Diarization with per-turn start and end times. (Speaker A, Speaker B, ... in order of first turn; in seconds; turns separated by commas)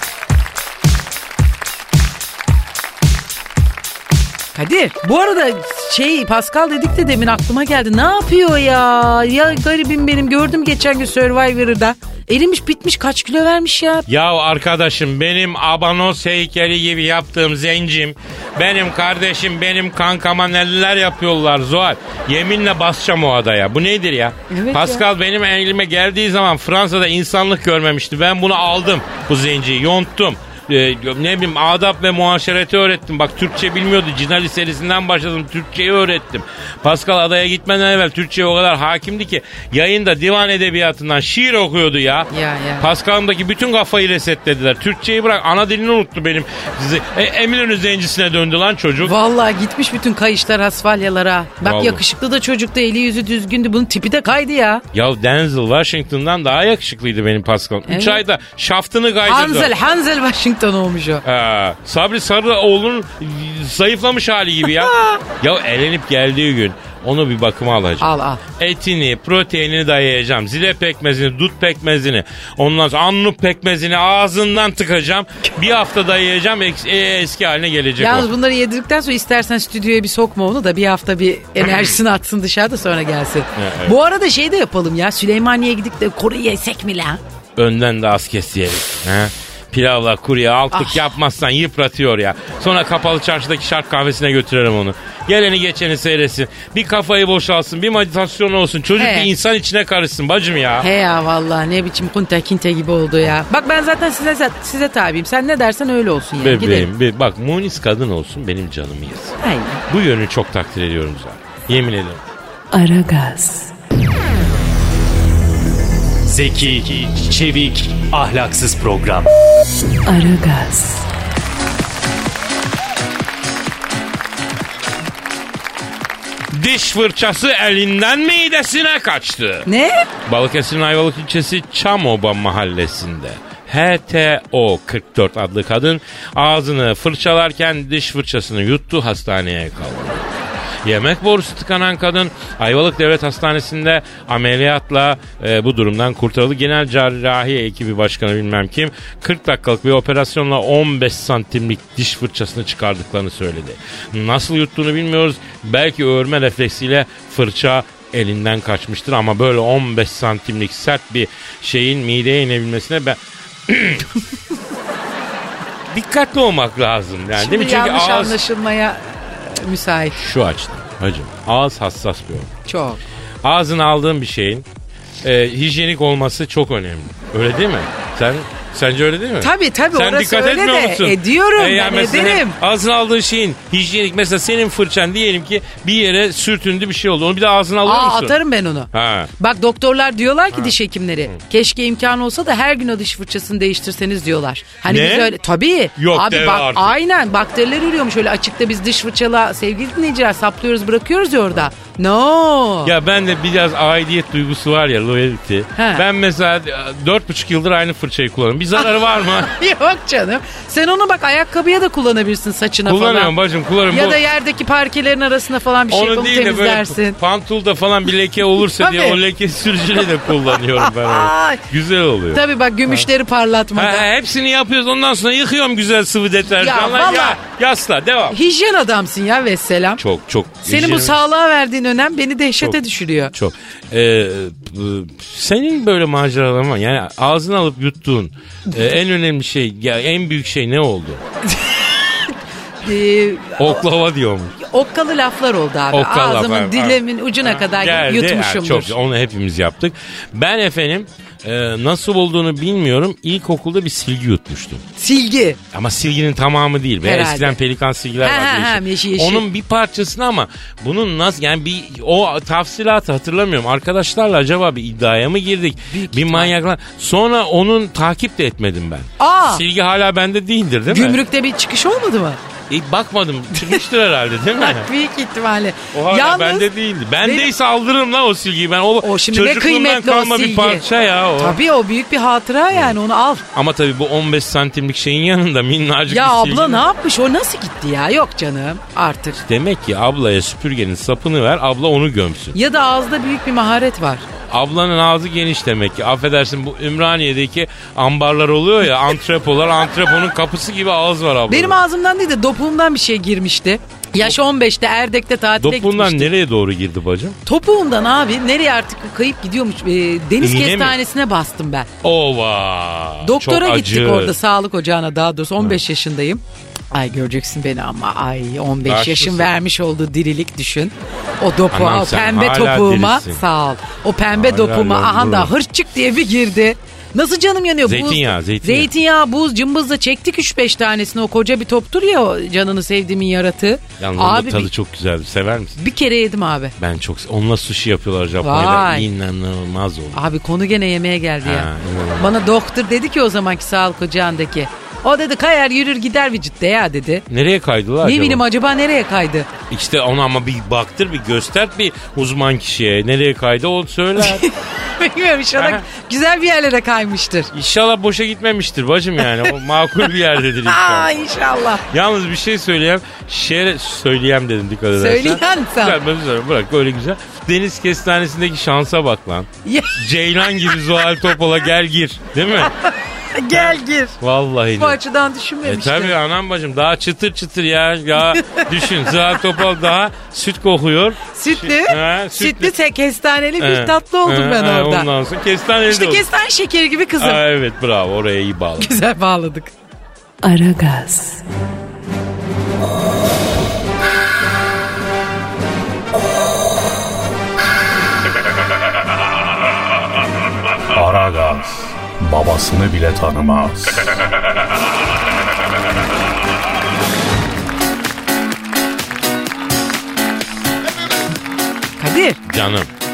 Speaker A: 4.5-14.1, Speaker B: 14.1-49.1, Speaker A: 24.5-25.1, Speaker A: 42.3-42.9, Speaker A: 49.0-54.8, Speaker B: 51.6-52.0, Speaker B: 54.9-59.8, Speaker A: 57.9-58.2, Speaker A: 59.2-61.2, Speaker B: 61.2-78.3, Speaker A: 64.7-65.2, Speaker A: 68.0-68.4, Speaker A: 78.0-87.2, Speaker B: 83.6-84.0, Speaker B: 87.6-100.9, Speaker A: 90.7-91.0, Speaker A: 99.0-99.3, Speaker A: 100.8-106.9, Speaker B: 106.4-112.2, Speaker A: 109.4-109.8, Speaker C: 112.7-113.7, Speaker D: 116.2-119.3, Speaker C: 120.1-121.1, Speaker B: 126.5-129.7, Speaker A: 129.7-130.0, Speaker B: 130.3-164.1, Speaker B: 165.9-168.4, Speaker A: 167.3-170.2, Speaker B: 170.1-172.5, Speaker A: 172.7-173.0, Speaker B: 173.4-174.7, Speaker B: 175.2-188.4, Speaker A: 179.4-182.6, Speaker A: 187.8-202.9, Speaker B: 188.9-189.3, Speaker B: 194.9-195.4, Speaker B: 196.0-197.0, Speaker B: 202.8-209.5, Speaker A: 205.8-206.1, Speaker A: 208.8-213.3, Speaker B: 212.8-214.2, Speaker A: 213.9-217.2, Speaker B: 215.9-223.1, Speaker A: 218.6-219.2, Speaker A: 220.8-221.7, Speaker A: 222.3-224.1, Speaker B: 223.7-228.4, Speaker A: 226.6-227.4, Speaker A: 228.3-230.0, Speaker B: 230.0-231.2, Speaker A: 230.6-233.3, Speaker B: 233.3-241.2, Speaker A: 242.8-243.8, Speaker B: 243.6-244.6, Speaker A: 244.6-248.9, Speaker B: 245.9-254.8, Speaker A: 255.0-255.6, Speaker B: 255.7-271.2, Speaker A: 257.0-257.6, Speaker A: 258.2-259.5, Speaker A: 265.9-266.5, Speaker A: 269.2-269.6, Speaker A: 270.9-272.4, Speaker B: 272.7-274.9, Speaker A: 274.6-276.7, Speaker B: 275.9-281.6, Speaker A: 277.2-277.5, Speaker A: 279.0-280.9, Speaker A: 281.4-283.4, Speaker B: 283.5-286.9, Speaker A: 286.1-289.4, Speaker B: 289.5-292.6, Speaker A: 292.6-294.3, Speaker B: 294.5-301.8, Speaker A: 301.5-306.3, Speaker B: 305.6-307.4, Speaker A: 307.5-311.9, Speaker B: 310.4-311.0, Speaker B: 312.0-314.4, Speaker A: 313.2-316.4, Speaker A: 316.9-334.7, Speaker B: 318.9-319.5, Speaker B: 321.7-323.4, Speaker B: 324.3-325.5, Speaker B: 327.9-328.9, Speaker B: 334.0-335.8, Speaker A: 335.8-336.8, Speaker B: 336.8-340.2, Speaker A: 338.4-339.1, Speaker A: 340.1-347.2, Speaker B: 341.4-342.4, Speaker B: 347.3-348.4, Speaker A: 348.0-349.5, Speaker B: 349.7-354.5, Speaker A: 354.2-357.5, Speaker B: 355.6-355.8, Speaker B: 357.5-361.2, Speaker A: 360.7-361.8, Speaker B: 361.9-372.7, Speaker A: 364.9-366.0, Speaker A: 369.6-370.0, Speaker A: 372.6-374.2, Speaker B: 373.5-375.0, Speaker A: 374.8-376.1, Speaker B: 375.6-382.7, Speaker A: 378.4-378.7, Speaker A: 381.3-385.1, Speaker B: 383.6-386.3, Speaker A: 385.9-387.4, Speaker B: 387.2-388.9, Speaker A: 388.8-389.7, Speaker C: 390.4-391.4, Speaker E: 400.9-404.0, Speaker A: 412.0-412.4, Speaker B: 412.5-412.9